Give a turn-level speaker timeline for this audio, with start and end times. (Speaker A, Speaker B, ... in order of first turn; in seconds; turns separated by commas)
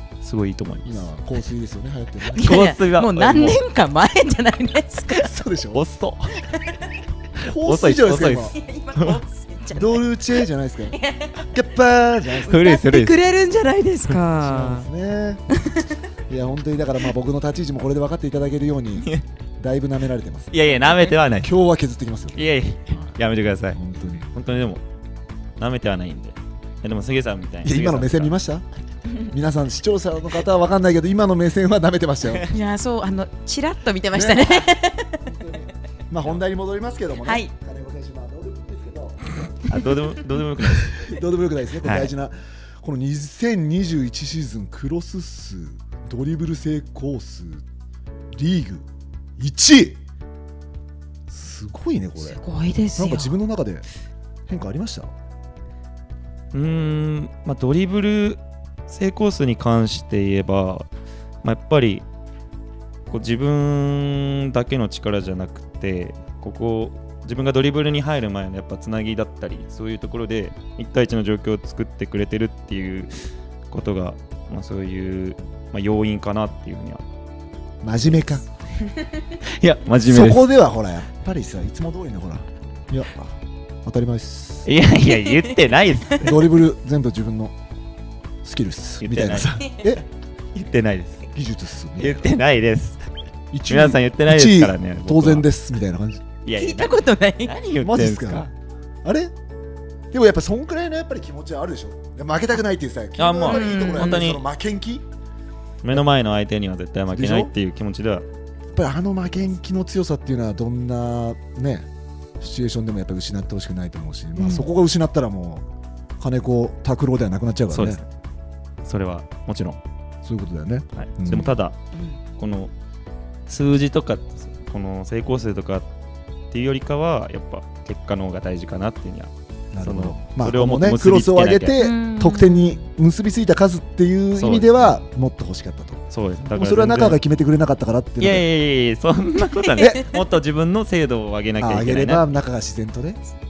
Speaker A: 0.2-1.1, Speaker B: 0.8-2.6, Speaker C: 2.3-5.3, Speaker A: 2.4-3.6, Speaker B: 5.1-5.8, Speaker A: 5.7-6.4, Speaker C: 6.4-6.8, Speaker A: 7.4-9.2, Speaker B: 7.4-8.6, Speaker C: 8.4-10.1, Speaker B: 9.7-12.6, Speaker C: 10.9-11.4, Speaker A: 12.4-13.2, Speaker C: 12.5-14.9, Speaker B: 14.4-15.4, Speaker C: 15.5-15.9, Speaker B: 16.3-19.1, Speaker B: 19.6-20.7, Speaker A: 20.5-21.5, Speaker B: 21.4-23.2, Speaker A: 22.3-23.8, Speaker B: 23.7-24.3, Speaker A: 24.3-24.8, Speaker A: 25.6-28.3, Speaker B: 27.6-28.6, Speaker B: 29.2-32.5, Speaker C: 32.5-35.3, Speaker B: 34.1-39.8, Speaker C: 37.2-37.5, Speaker A: 39.7-41.0, Speaker B: 40.7-47.6, Speaker A: 41.8-42.1, Speaker B: 48.3-48.8, Speaker B: 49.4-50.0, Speaker B: 51.3-52.4, Speaker C: 52.2-53.4, Speaker B: 53.0-53.9, Speaker B: 54.5-55.1, Speaker A: 56.5-60.9, Speaker A: 61.4-62.0, Speaker A: 63.1-73.1, Speaker A: 73.7-77.0, Speaker B: 77.8-78.4, Speaker A: 79.4-80.6, Speaker B: 80.0-84.7, Speaker A: 84.6-86.5, Speaker C: 85.0-85.5, Speaker B: 86.2-87.5, Speaker B: 88.4-90.0, Speaker A: 89.0-89.9, Speaker A: 90.5-91.2, Speaker B: 91.3-92.4, Speaker A: 92.0-93.0, Speaker B: 93.5-96.2, Speaker A: 93.7-95.5, Speaker A: 96.4-98.5, Speaker C: 96.5-97.5, Speaker B: 97.8-98.5, Speaker B: 99.0-99.3, Speaker B: 100.1-105.0, Speaker A: 103.2-104.4, Speaker C: 103.4-104.2, Speaker A: 105.8-108.2, Speaker B: 107.1-107.5, Speaker B: 108.7-115.7, Speaker C: 114.3-114.7, Speaker B: 116.2-118.0, Speaker A: 117.7-118.0, Speaker A: 118.8-119.8, Speaker B: 120.2-121.6, Speaker A: 120.9-121.8, Speaker C: 121.9-122.2, Speaker A: 122.4-122.7, Speaker A: 123.5-125.9, Speaker A: 126.5-131.8, Speaker B: 129.7-138.5, Speaker C: 131.8-132.7, Speaker A: 134.3-135.0, Speaker A: 136.1-137.2, Speaker A: 138.2-142.4, Speaker B: 139.8-140.1, Speaker B: 141.6-143.2